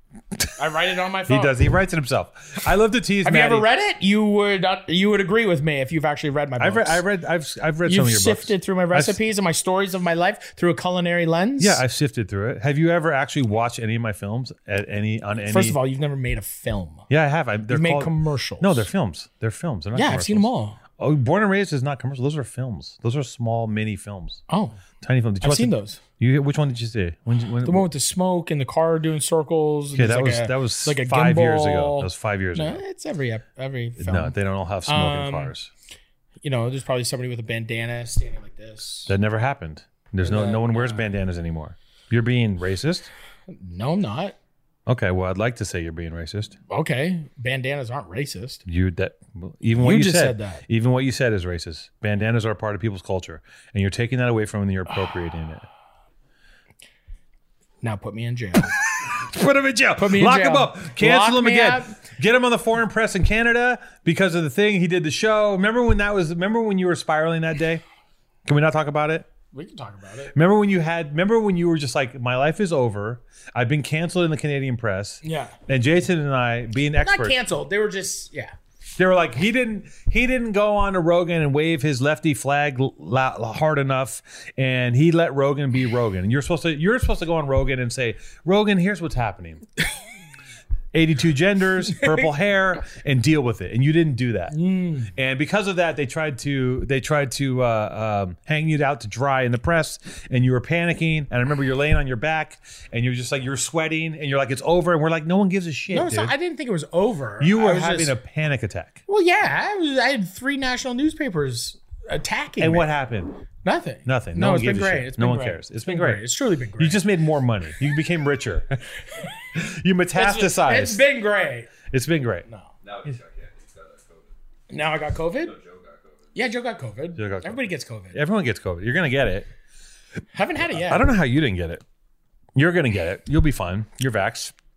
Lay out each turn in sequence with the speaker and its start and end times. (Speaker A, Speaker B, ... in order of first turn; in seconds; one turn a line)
Speaker A: 0.6-1.6
Speaker B: 1.3-3.6
Speaker A: 3.2-7.0
Speaker B: 6.6-9.2
Speaker A: 7.8-11.8
Speaker B: 11.6-15.8
Speaker A: 15.4-17.1
Speaker B: 17.1-24.4
Speaker A: 17.7-18.9
Speaker A: 19.9-20.8
Speaker A: 24.5-24.8
Speaker B: 25.0-27.9
Speaker A: 25.4-26.0
Speaker A: 27.6-34.3
Speaker B: 29.9-32.8
Speaker B: 34.0-35.7
Speaker A: 34.9-35.5
Speaker A: 36.4-39.1
Speaker B: 39.1-43.1
Speaker A: 40.2-41.0
Speaker A: 43.5-44.4
Speaker B: 44.9-46.6
Speaker A: 46.7-48.6
Speaker B: 48.6-55.7
Speaker A: 49.8-50.6
Speaker A: 57.8-58.7
Speaker B: 59.1-67.8
Speaker A: 60.0-62.0
Speaker B: 68.4-69.3
Speaker A: 69.5-70.3
Speaker B: 70.3-77.3
Speaker A: 75.2-75.5
Speaker A: 77.0-78.5
Speaker B: 79.0-89.6
Speaker B: 90.9-94.5
Speaker A: 92.0-92.2
Speaker A: 94.5-95.1
Speaker B: 95.1-106.3
Speaker A: 105.9-108.1
Speaker B: 107.4-109.0
Speaker A: 109.1-112.9
Speaker B: 112.6-113.4
Speaker A: 113.6-117.0
Speaker B: 114.0-116.2
Speaker B: 116.8-118.8
Speaker B: 119.5-121.0
Speaker A: 120.1-121.7
Speaker B: 121.9-122.5
Speaker C: 122.8-124.3
Speaker A: 124.7-125.5
Speaker C: 125.4-126.4
Speaker A: 126.3-128.2
Speaker B: 127.2-129.5
Speaker A: 130.3-131.1
Speaker B: 130.7-131.8
Speaker B: 132.6-134.5